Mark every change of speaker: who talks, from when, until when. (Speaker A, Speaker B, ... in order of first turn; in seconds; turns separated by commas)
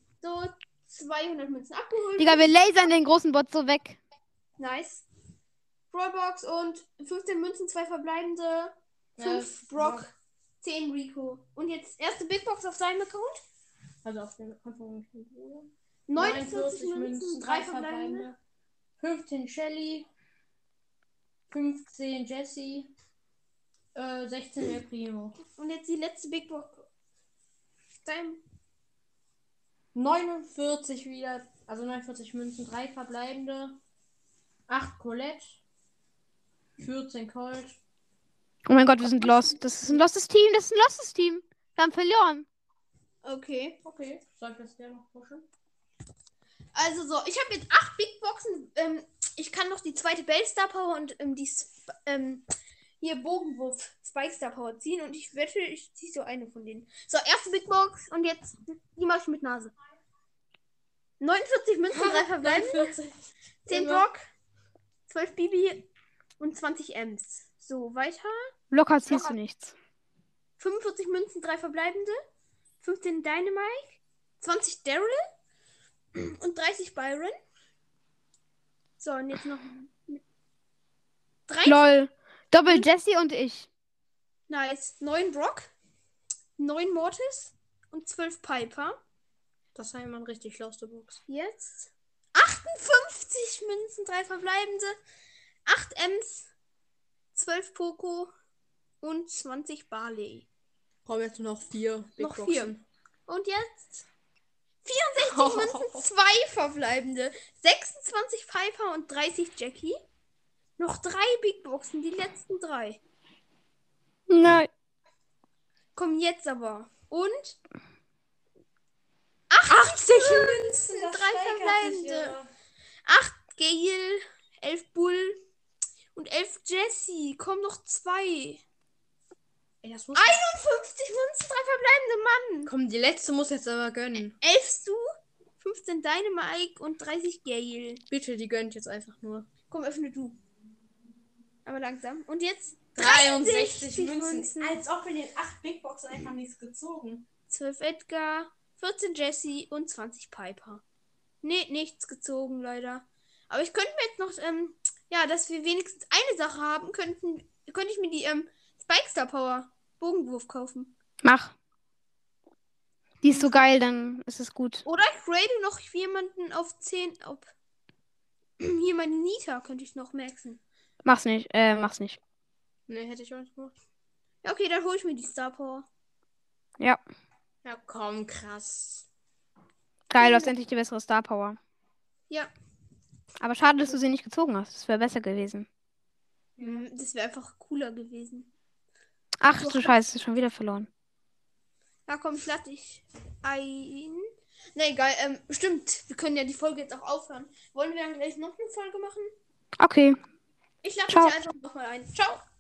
Speaker A: 0.2-2.8, Speaker B: 2.2-4.0, Speaker A: 4.6-5.1, Speaker A: 5.9-13.4, Speaker C: 9.2-10.1, Speaker C: 14.0-18.3, Speaker A: 16.1-18.4, Speaker C: 19.0-20.1, Speaker C: 21.5-22.9, Speaker C: 23.9-25.4, Speaker A: 25.5-26.9, Speaker A: 28.0-28.4, Speaker C: 29.9-33.8, Speaker C: 34.7-35.6, Speaker C: 36.8-37.8, Speaker B: 38.7-42.5, Speaker A: 39.1-39.6, Speaker A: 43.2-43.8, Speaker C: 43.8-45.5, Speaker A: 46.7-52.5, Speaker A: 53.0-59.7, Speaker A: 61.2-62.9, Speaker C: 61.9-64.1, Speaker A: 63.6-64.2, Speaker A: 65.1-65.9, Speaker A: 66.4-68.5, Speaker B: 68.7-69.7, Speaker A: 69.1-69.3, Speaker A: 70.6-72.2, Speaker A: 72.8-75.2, Speaker A: 76.2-77.4, Speaker A: 79.0-80.2, Speaker A: 81.5-81.8, Speaker B: 81.6-83.7, Speaker A: 84.5-85.7, Speaker A: 86.6-89.0, Speaker C: 89.8-91.2, Speaker A: 91.3-95.0, Speaker A: 95.7-96.5, Speaker A: 97.3-98.3, Speaker A: 99.0-100.5, Speaker C: 101.1-102.8, Speaker A: 102.2-102.7, Speaker A: 103.3-104.0, Speaker A: 104.8-110.0, Speaker C: 105.2-106.1, Speaker A: 110.8-113.0, Speaker B: 114.3-114.7, Speaker A: 116.0-117.6, Speaker A: 119.5-122.4, Speaker C: 119.7-122.5, Speaker A: 123.0-125.4, Speaker A: 126.1-128.6, Speaker C: 129.8-130.4, Speaker A: 130.2-132.7, Speaker C: 132.7-134.4, Speaker A: 134.4-135.0, Speaker A: 135.6-138.0, Speaker C: 138.1-139.5, Speaker A: 139.7-140.4, Speaker A: 141.7-144.8, Speaker C: 142.9-147.2, Speaker A: 147.5-150.8, Speaker A: 151.4-160.9, Speaker B: 161.2-161.5, Speaker B: 163.2-164.8, Speaker A: 163.3-163.7, Speaker A: 164.8-167.5, Speaker A: 168.6-170.6, Speaker B: 171.1-172.2, Speaker C: 172.9-173.8, Speaker A: 174.4-175.9, Speaker C: 177.6-179.1, Speaker B: 180.1-181.6, Speaker A: 180.2-180.5, Speaker B: 183.4-185.7, Speaker C: 186.6-186.8, Speaker A: 186.6-188.5, Speaker B: 189.4-190.9, Speaker A: 189.5-190.0, Speaker A: 192.1-199.3, Speaker B: 199.8-200.2, Speaker A: 200.8-202.4, Speaker B: 201.1-201.4